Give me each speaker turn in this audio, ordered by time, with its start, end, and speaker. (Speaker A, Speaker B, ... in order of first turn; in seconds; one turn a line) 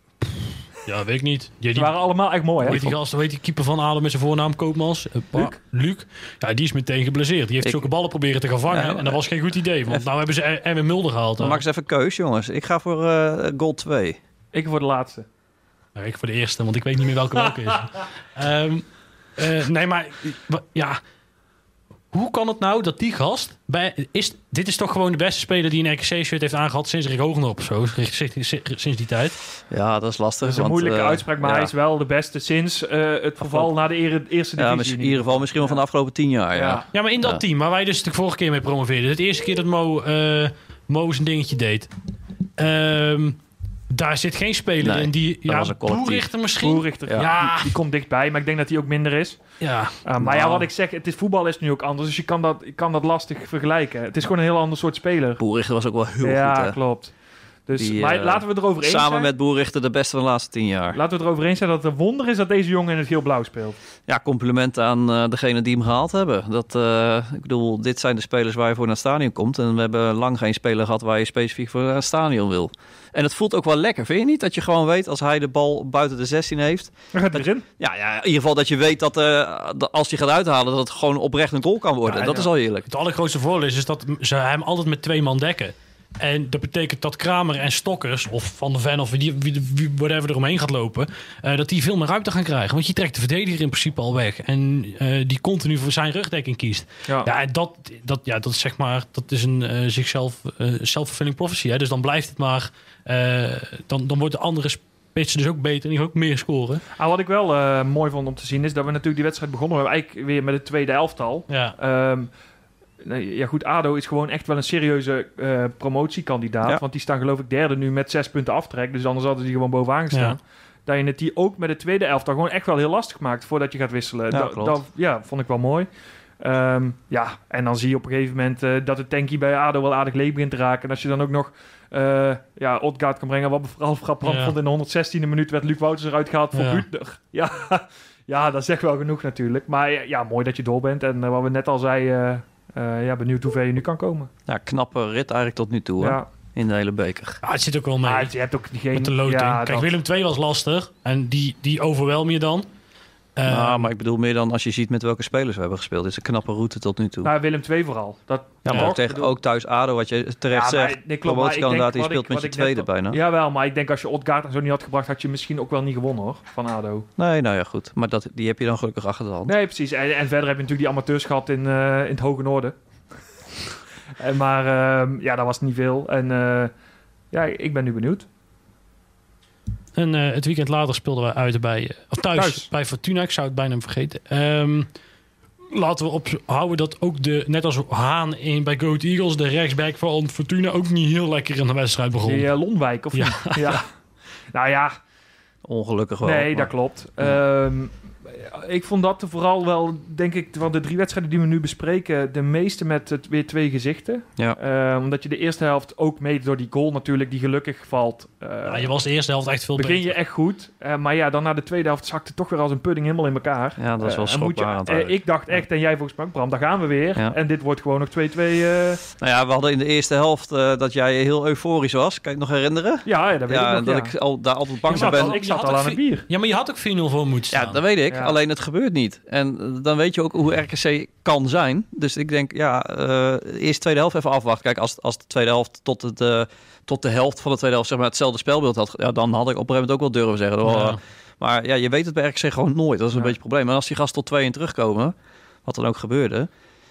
Speaker A: 0.8-1.9
Speaker B: 1.7-2.8
Speaker A: 2.6-11.6
Speaker C: 2.7-3.0
Speaker C: 7.6-7.9
Speaker C: 8.7-9.2
Speaker C: 11.4-14.2
Speaker B: 14.5-15.2
Speaker A: 15.9-21.0
Speaker A: 22.1-29.4
Speaker C: 29.7-31.7
Speaker B: 30.4-35.8
Speaker C: 33.4-33.7
Speaker C: 34.6-37.4
Speaker B: 36.5-36.8
Speaker A: 36.9-41.9
Speaker A: 42.6-43.4
Speaker A: 43.9-47.8
Speaker C: 44.8-46.3
Speaker B: 46.6-49.4
Speaker A: 49.6-50.0
Speaker B: 50.0-55.4
Speaker C: 50.2-50.7
Speaker C: 55.4-56.8
Speaker B: 56.2-57.1
Speaker B: 57.7-59.3
Speaker C: 57.8-61.0
Speaker B: 60.9-63.8
Speaker C: 64.1-82.9
Speaker B: 77.1-77.6
Speaker B: 82.1-82.5
Speaker A: 82.9-106.8
Speaker B: 107.0-112.3
Speaker A: 111.5-111.7
Speaker B: 113.0-125.9
Speaker C: 124.3-124.8
Speaker B: 126.4-144.3
Speaker A: 134.2-134.5
Speaker A: 136.5-136.8
Speaker C: 144.5-147.4
Speaker B: 146.0-146.3
Speaker A: 147.4-148.3
Speaker B: 148.0-149.9
Speaker A: 148.9-152.7
Speaker A: 153.3-153.9
Speaker C: 153.5-157.3
Speaker B: 157.2-159.3
Speaker C: 158.7-163.2
Speaker B: 160.5-167.1
Speaker C: 167.2-169.5
Speaker B: 169.5-172.7
Speaker B: 174.2-176.7
Speaker B: 177.3-178.2
Speaker A: 179.9-184.9
Speaker B: 182.3-182.7
Speaker A: 185.7-192.4
Speaker B: 192.2-193.8
Speaker A: 193.1-193.8
Speaker B: 194.5-194.9
Speaker C: 195.6-196.7
Speaker B: 196.2-208.9
Speaker A: 208.7-210.1
Speaker B: 209.7-219.0
Speaker C: 213.8-215.2
Speaker C: 219.2-225.4
Speaker B: 223.0-224.1
Speaker B: 224.9-226.2
Speaker A: 224.9-227.8
Speaker C: 227.5-246.5
Speaker B: 228.1-228.3
Speaker A: 240.6-241.0